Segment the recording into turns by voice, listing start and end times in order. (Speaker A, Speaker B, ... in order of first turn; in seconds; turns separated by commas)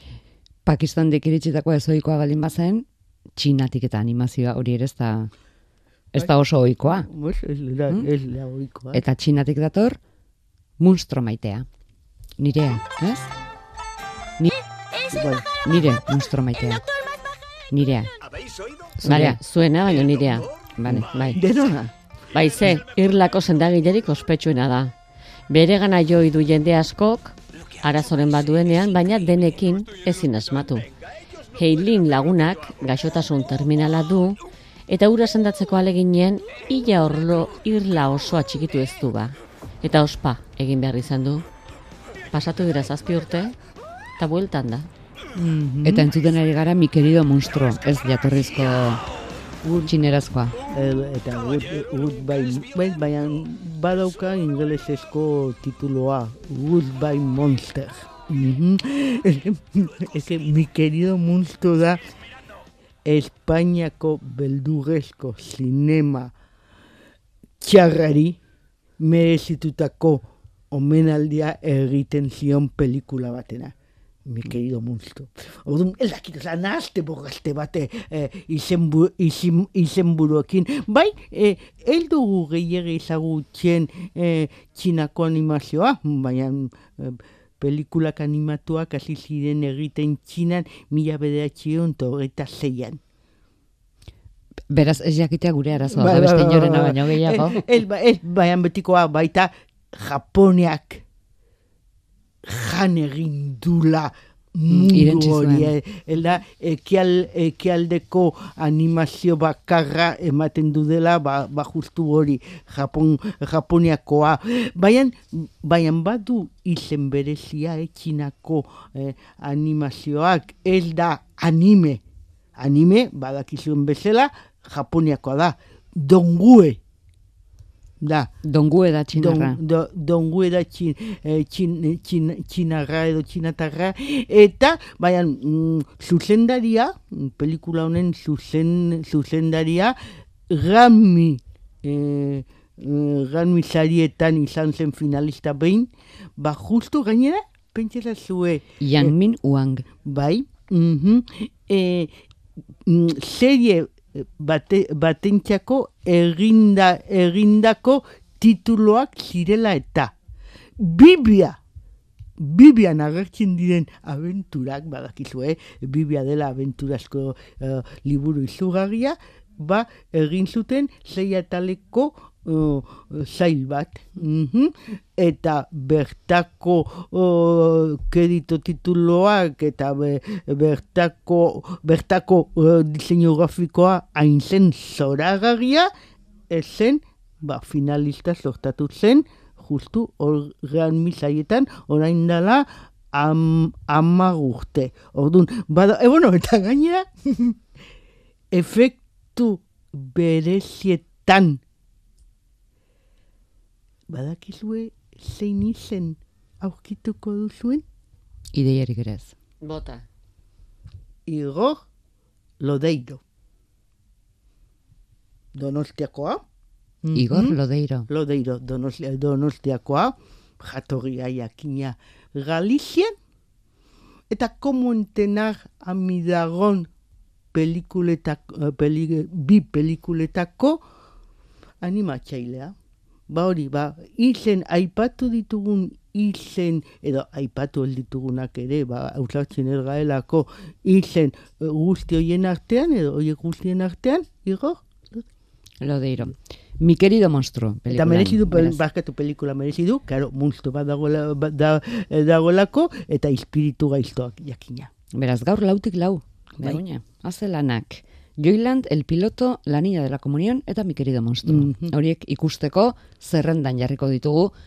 Speaker A: 0.7-5.3, Speaker A: 6.1-7.1, Speaker B: 7.0-9.0, Speaker A: 8.9-10.0, Speaker A: 10.8-11.7, Speaker A: 12.4-13.3, Speaker B: 15.1-15.5, Speaker A: 15.6-16.8, Speaker A: 17.7-18.1, Speaker A: 19.0-19.4, Speaker C: 19.0-21.4, Speaker A: 20.8-21.1, Speaker B: 21.4-21.9, Speaker C: 22.3-24.9, Speaker C: 25.5-30.9, Speaker C: 31.6-34.4, Speaker C: 34.9-41.5, Speaker C: 42.3-43.5, Speaker C: 44.2-44.9, Speaker B: 45.4-46.1, Speaker A: 45.9-49.0, Speaker B: 49.6-49.9, Speaker A: 49.9-50.6, Speaker B: 50.7-62.0, Speaker B: 63.0-66.3, Speaker B: 67.6-68.4, Speaker B: 69.0-73.7, Speaker B: 74.3-93.0, Speaker A: 94.7-97.6, Speaker B: 95.9-101.0, Speaker B: 102.5-122.0, Speaker A: 104.7-105.7, Speaker B: 122.6-126.8, Speaker B: 128.0-128.3, Speaker A: 128.4-129.6, Speaker B: 129.1-140.0, Speaker B: 140.5-149.1, Speaker A: 148.8-149.9, Speaker B: 150.0-152.1, Speaker B: 152.9-160.1, Speaker B: 160.8-161.6, Speaker B: 162.4-185.9, Speaker B: 186.5-197.6, Speaker B: 198.5-201.6, Speaker B: 204.1-207.8, Speaker A: 208.5-209.3, Speaker C: 209.6-210.1, Speaker B: 211.3-211.8, Speaker B: 212.6-213.2, Speaker B: 215.6-216.4, Speaker B: 217.0-217.6, Speaker A: 217.2-218.1, Speaker B: 218.1-223.1, Speaker B: 224.3-226.9, Speaker B: 227.5-230.8, Speaker B: 231.8-232.8, Speaker B: 233.3-245.2, Speaker A: 245.8-248.8, Speaker B: 247.9-254.9, Speaker A: 255.1-264.5, Speaker B: 261.5-261.9